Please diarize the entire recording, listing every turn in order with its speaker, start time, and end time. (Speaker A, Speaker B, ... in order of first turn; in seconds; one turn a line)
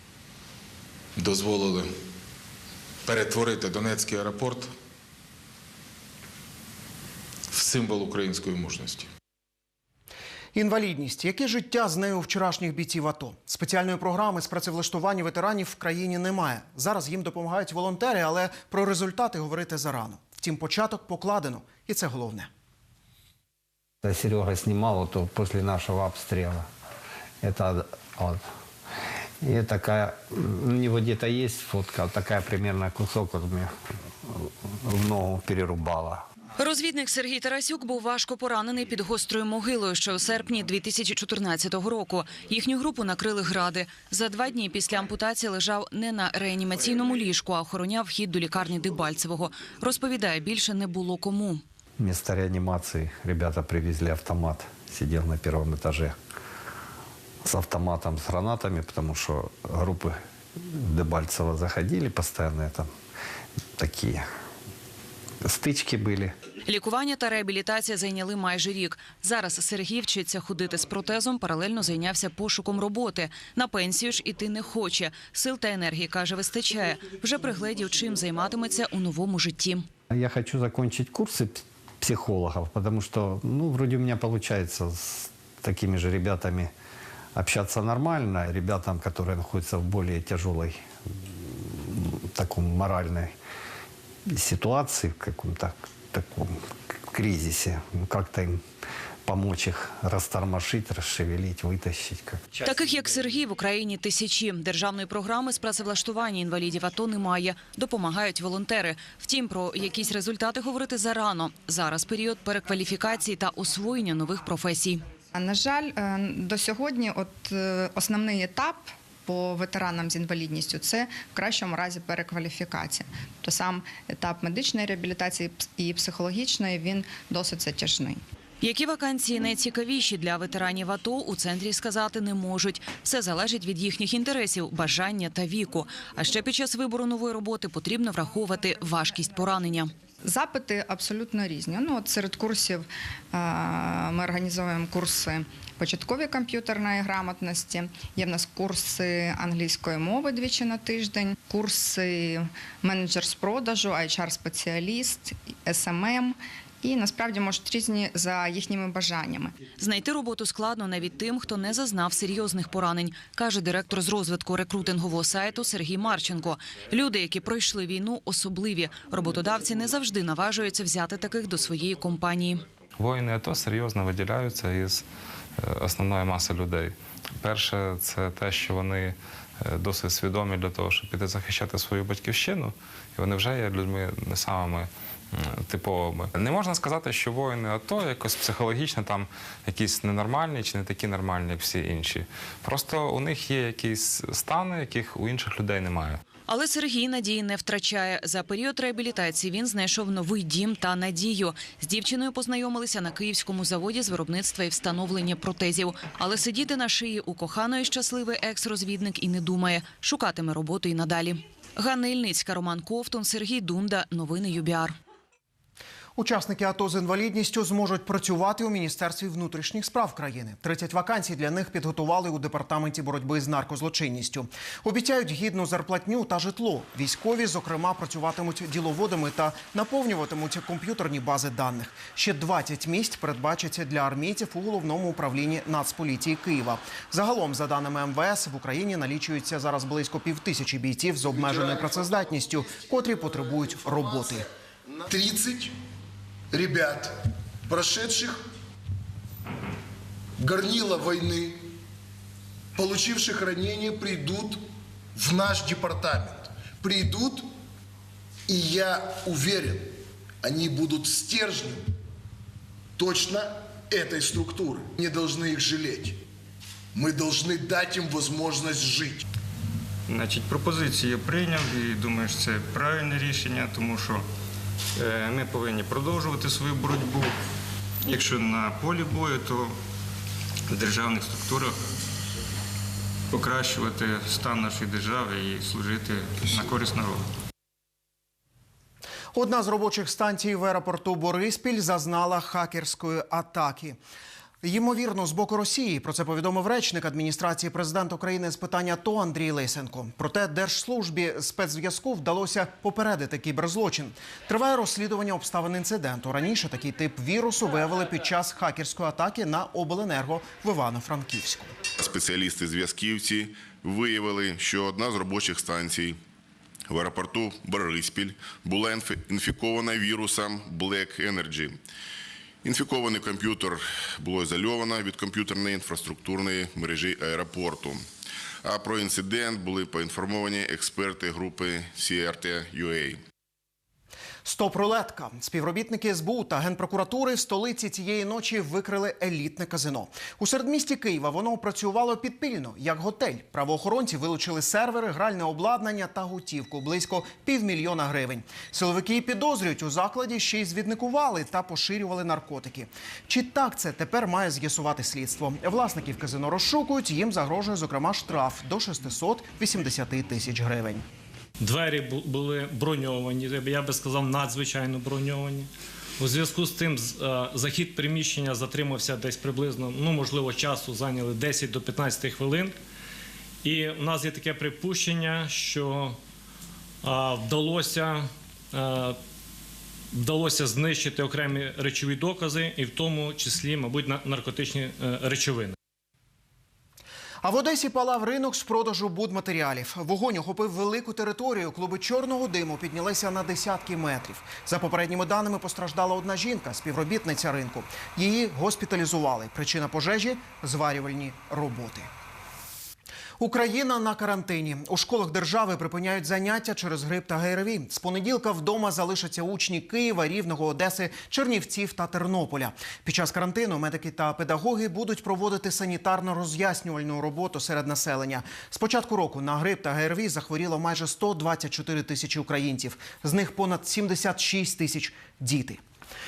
Speaker A: 1.1-1.9
Speaker A: 3.0-4.7
Speaker A: 7.5-9.1
Speaker B: 10.5-22.5
Speaker C: 24.0-26.7
Speaker C: 27.4-28.4
Speaker C: 29.4-33.7
Speaker C: 34.2-36.2
Speaker D: 36.6-51.6
Speaker C: 52.0-56.1
Speaker C: 57.4-62.9
Speaker C: 63.8-64.3
Speaker C: 65.4-66.3
Speaker D: 66.7-79.8
Speaker C: 80.1-86.7
Speaker C: 87.3-93.3
Speaker C: 94.3-98.6
Speaker C: 99.2-102.6
Speaker D: 102.6-115.0
Speaker E: 115.3-128.2
Speaker D: 128.6-139.9
Speaker E: 140.2-159.5
Speaker D: 159.8-172.6
Speaker F: 173.0-175.1
Speaker F: 175.6-196.2
Speaker D: 196.5-214.9
Speaker B: 216.2-244.5
Speaker G: 241.3-242.4
Speaker G: 243.5-244.4
Speaker G: 244.9-245.7
Speaker G: 246.5-247.2
Speaker G: 247.7-248.4
Speaker G: 250.4-251.6
Speaker G: 252.7-254.6
Speaker G: 255.2-257.5
Speaker G: 258.5-261.8
Speaker G: 263.0-266.2
Speaker G: 266.9-269.2
Speaker H: 270.1-274.2
Speaker H: 275.0-277.4
Speaker H: 278.0-279.8
Speaker H: 280.7-281.8
Speaker H: 283.3-287.2
Speaker B: 289.3-294.0
Speaker B: 294.6-311.7
Speaker I: 312.0-316.2
Speaker I: 316.9-321.8
Speaker I: 322.6-328.0
Speaker I: 328.6-333.2
Speaker B: 334.4-361.0
Speaker J: 361.6-365.7
Speaker J: 366.2-372.8
Speaker J: 373.6-376.2
Speaker J: 377.0-379.2
Speaker J: 380.1-385.7
Speaker B: 387.4-402.1
Speaker B: 403.4-425.8